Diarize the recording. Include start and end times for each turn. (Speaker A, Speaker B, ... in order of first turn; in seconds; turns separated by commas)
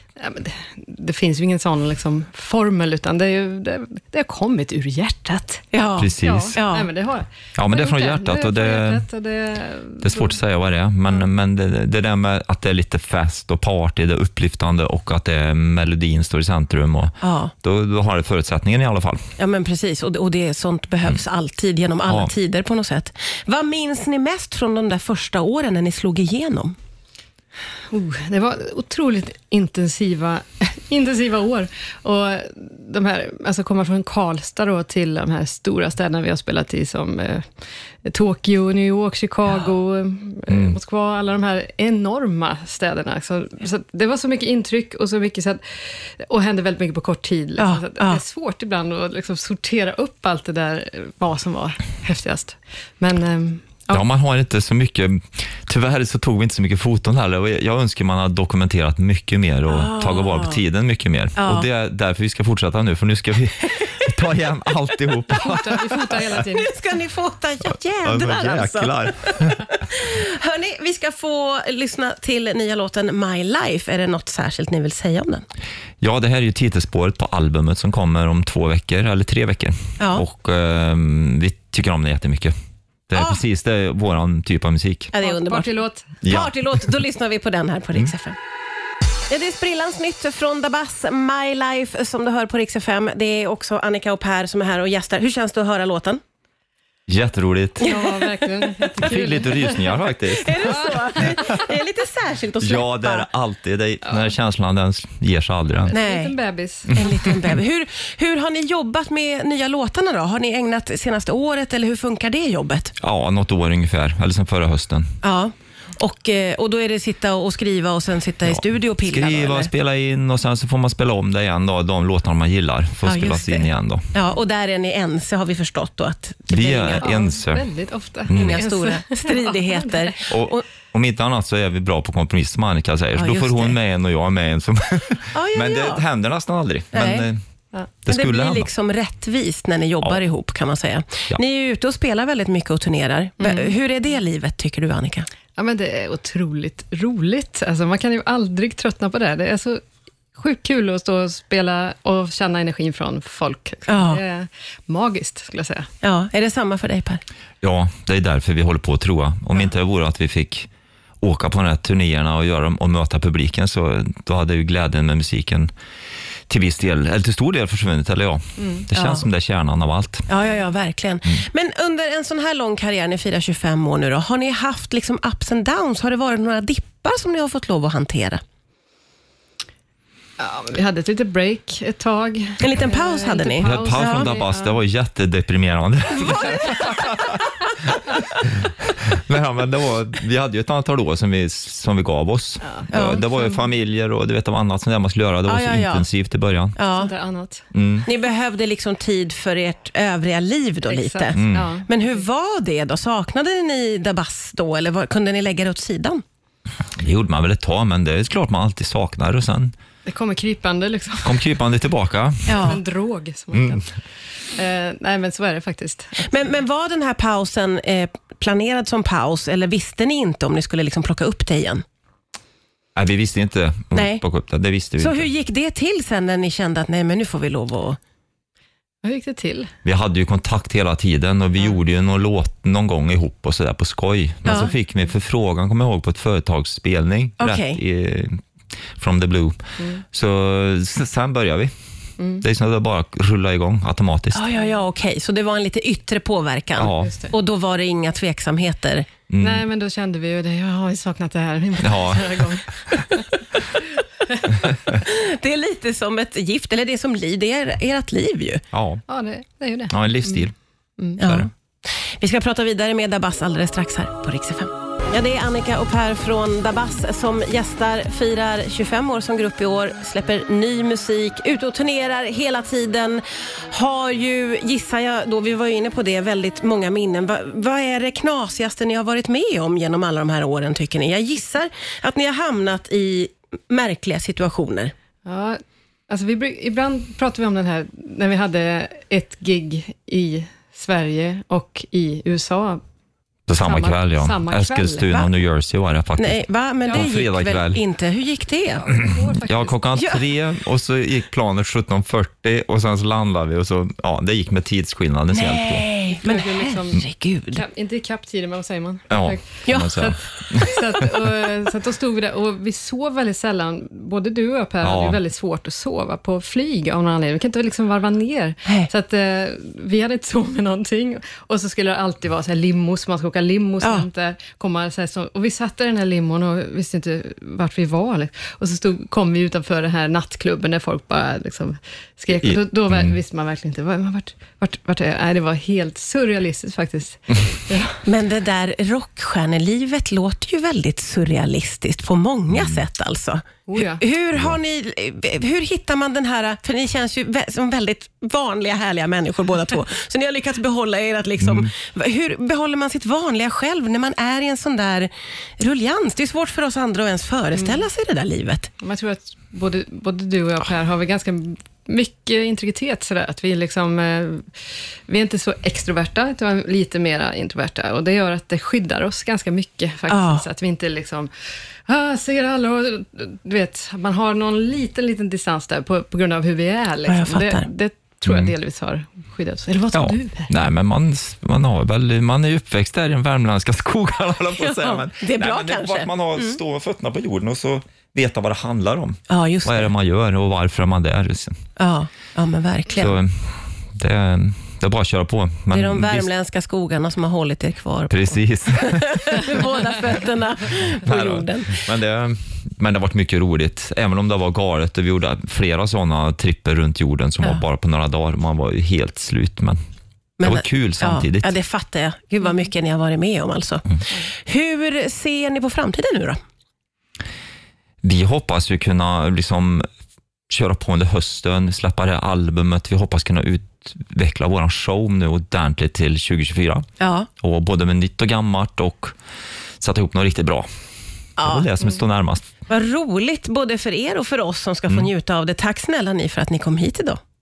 Speaker A: 0.2-5.6, Speaker B: 5.7-6.9, Speaker C: 6.0-6.6, Speaker A: 6.2-10.4, Speaker C: 7.5-9.0, Speaker C: 10.0-19.2, Speaker B: 17.2-17.5, Speaker B: 19.4-26.8, Speaker C: 22.1-22.3, Speaker A: 27.9-37.4, Speaker A: 38.0-54.0, Speaker C: 40.5-40.8, Speaker B: 47.6-48.2, Speaker C: 53.9-66.4, Speaker B: 59.7-60.6, Speaker B: 61.4-61.7, Speaker A: 65.3-66.7, Speaker B: 66.3-75.4, Speaker C: 68.0-69.6, Speaker C: 76.0-82.5, Speaker B: 80.0-80.2, Speaker C: 83.1-85.1, Speaker B: 83.1-83.4, Speaker B: 85.1-88.4, Speaker A: 85.2-86.1, Speaker C: 86.2-86.6, Speaker B: 89.3-96.2, Speaker C: 97.1-98.0, Speaker A: 97.8-100.1, Speaker B: 97.8-98.2, Speaker C: 99.0-101.3, Speaker B: 100.4-103.3, Speaker A: 100.6-101.6, Speaker C: 102.6-105.9, Speaker A: 104.0-104.3, Speaker A: 105.8-107.0, Speaker B: 105.9-106.3, Speaker B: 106.9-112.9, Speaker C: 106.9-107.6, Speaker C: 113.0-115.0, Speaker B: 115.2-119.7, Speaker C: 118.5-124.1, Speaker B: 123.0-127.1, Speaker C: 126.5-127.7, Speaker A: 127.0-130.1, Speaker C: 128.3-128.6, Speaker B: 128.3-130.7, Speaker C: 130.3-137.4, Speaker B: 133.2-133.8, Speaker B: 135.3-136.0, Speaker B: 136.9-137.3, Speaker C: 138.0-138.7, Speaker B: 138.1-145.3, Speaker A: 143.4-143.7, Speaker A: 145.6-149.8, Speaker A: 150.3-155.9, Speaker B: 153.9-154.2, Speaker B: 156.0-157.2, Speaker C: 157.6-160.7, Speaker C: 161.2-165.7, Speaker C: 166.5-170.3, Speaker A: 168.6-168.8, Speaker B: 168.9-169.2, Speaker B: 170.3-178.4, Speaker A: 180.4-184.8, Speaker B: 182.6-184.3, Speaker C: 183.6-187.0, Speaker C: 188.3-196.8, Speaker A: 192.6-193.7, Speaker B: 192.9-193.2, Speaker B: 195.4-196.1, Speaker B: 196.8-197.1, Speaker A: 196.9-197.7, Speaker C: 197.7-198.1, Speaker B: 198.0-206.2, Speaker A: 200.8-202.2, Speaker C: 201.3-201.7, Speaker C: 206.9-209.7, Speaker A: 210.0-211.5, Speaker C: 211.2-212.7, Speaker B: 212.5-212.8, Speaker A: 212.6-213.8, Speaker C: 213.5-213.8, Speaker A: 214.5-216.3, Speaker B: 216.2-221.8, Speaker C: 222.9-225.2, Speaker B: 223.9-224.2, Speaker B: 225.0-228.0, Speaker A: 229.0-229.7, Speaker C: 229.8-238.4, Speaker B: 234.4-234.7, Speaker B: 237.4-237.8, Speaker C: 238.9-239.6, Speaker C: 240.1-241.7, Speaker A: 242.2-242.4, Speaker C: 242.4-244.4, Speaker B: 244.3-249.1, Speaker C: 246.8-247.1, Speaker A: 247.0-247.3, Speaker C: 249.3-249.6, Speaker A: 249.4-253.3, Speaker C: 251.8-252.4, Speaker B: 254.9-258.6, Speaker C: 258.7-259.0, Speaker A: 259.1-260.5, Speaker C: 259.9-260.5, Speaker B: 261.2-261.5, Speaker C: 261.2-261.5, Speaker B: 262.1-284.9, Speaker A: 285.2-285.6, Speaker A: 286.1-292.8, Speaker C: 293.5-296.4, Speaker A: 293.6-295.1, Speaker B: 296.2-298.9, Speaker C: 296.9-297.8, Speaker A: 298.8-300.1, Speaker C: 298.9-305.8, Speaker B: 305.3-307.6, Speaker A: 306.1-338.0, Speaker C: 309.1-311.3, Speaker B: 309.6-310.0, Speaker C: 314.8-315.2, Speaker B: 323.8-324.1, Speaker C: 332.4-333.1, Speaker B: 338.0-358.7, Speaker C: 342.5-342.8, Speaker A: 343.7-344.0, Speaker A: 357.6-357.9, Speaker A: 358.8-364.5, Speaker A: 365.1-371.3, Speaker B: 370.1-370.4, Speaker A: 371.9-380.5, Speaker B: 377.1-377.7, Speaker C: 378.2-378.5, Speaker C: 379.9-391.6, Speaker B: 384.6-386.6, Speaker B: 389.3-389.9, Speaker B: 391.8-393.2, Speaker C: 392.9-396.3, Speaker B: 395.7-401.9, Speaker C: 398.1-399.6, Speaker C: 401.0-409.8, Speaker B: 410.4-416.4, Speaker C: 410.4-411.5, Speaker C: 418.0-419.9, Speaker C: 420.5-426.8, Speaker B: 427.0-427.3, Speaker C: 427.4-429.1, Speaker C: 429.8-430.6, Speaker B: 431.4-431.8, Speaker C: 431.4-432.5, Speaker B: 432.7-437.2